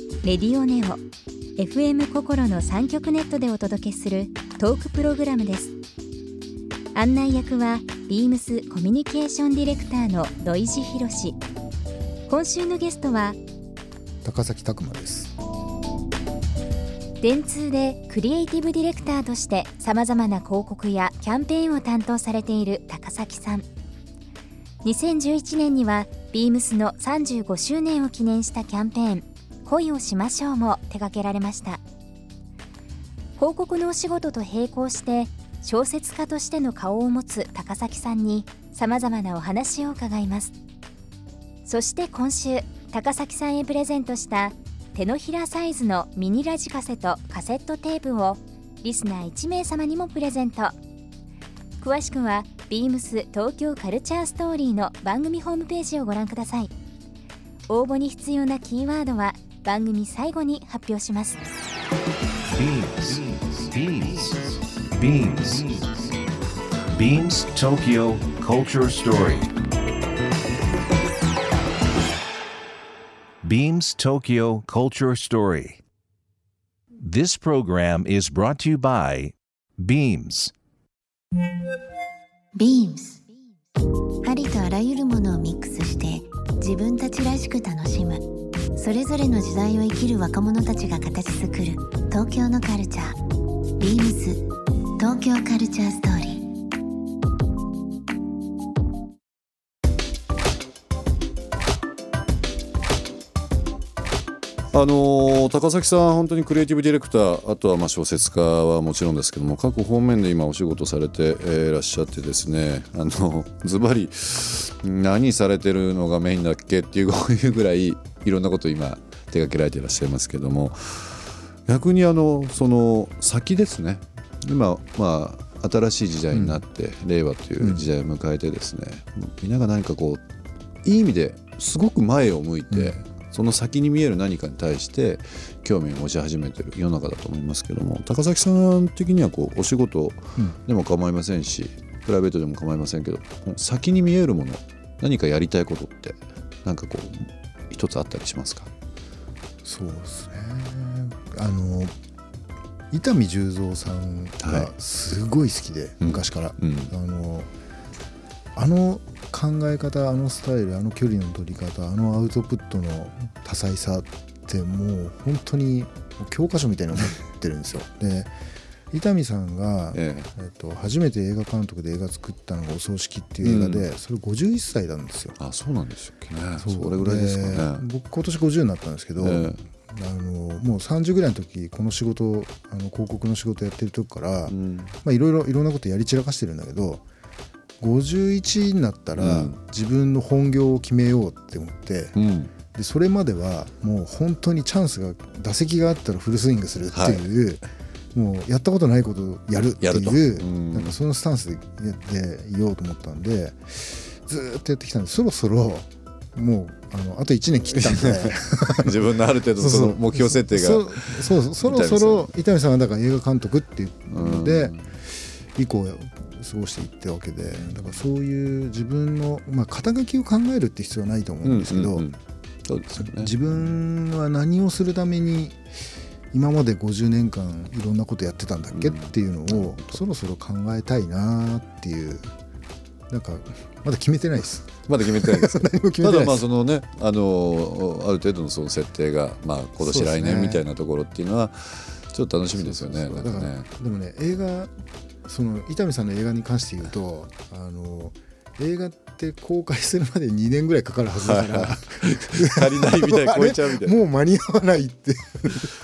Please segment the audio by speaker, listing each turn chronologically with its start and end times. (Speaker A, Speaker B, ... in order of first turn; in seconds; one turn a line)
Speaker A: 0.2-1.0
Speaker A: 1.6-5.7
Speaker A: 6.9-11.4
Speaker A: 12.3-13.4
Speaker B: 14.2-15.3
Speaker A: 17.2-23.6
Speaker A: 24.8-31.8
Speaker A: 33.4-40.5
Speaker A: 41.6-50.7
Speaker A: 51.8-56.7
Speaker A: 57.7-61.4
Speaker C: 62.5-66.1
Speaker C: 66.9-69.5
Speaker C: 73.4-75.8
Speaker C: 77.0-80.5
Speaker D: 82.5-83.2
Speaker D: 84.2-88.2
Speaker D: 88.8-93.2
Speaker D: 93.8-94.5
Speaker D: 95.0-96.5
Speaker E: 104.7-130.2
Speaker B: 126.3-126.6
Speaker B: 127.6-127.9
Speaker E: 130.8-148.7
Speaker B: 132.7-133.0
Speaker B: 149.6-151.9
Speaker B: 152.9-157.5
Speaker E: 154.4-154.7
Speaker E: 156.0-156.9
Speaker B: 158.6-168.3
Speaker B: 168.9-175.4
Speaker E: 169.9-170.3
Speaker E: 173.4-173.9
Speaker E: 175.4-177.8
Speaker B: 176.6-187.0
Speaker E: 179.2-179.6
Speaker E: 184.5-184.9
Speaker B: 187.8-192.2
Speaker E: 189.2-189.6
Speaker E: 192.2-192.5
Speaker B: 192.7-209.0
Speaker E: 196.9-197.3
Speaker E: 199.8-200.9
Speaker E: 207.8-212.3
Speaker B: 209.6-214.8
Speaker E: 214.1-214.9
Speaker B: 215.6-222.1
Speaker E: 221.4-223.3
Speaker B: 223.0-225.6
Speaker B: 226.3-232.3
Speaker E: 228.7-230.0
Speaker B: 233.1-236.5
Speaker E: 234.9-243.7
Speaker B: 239.8-240.7
Speaker B: 242.5-244.7
Speaker B: 245.2-255.7
Speaker E: 251.2-254.0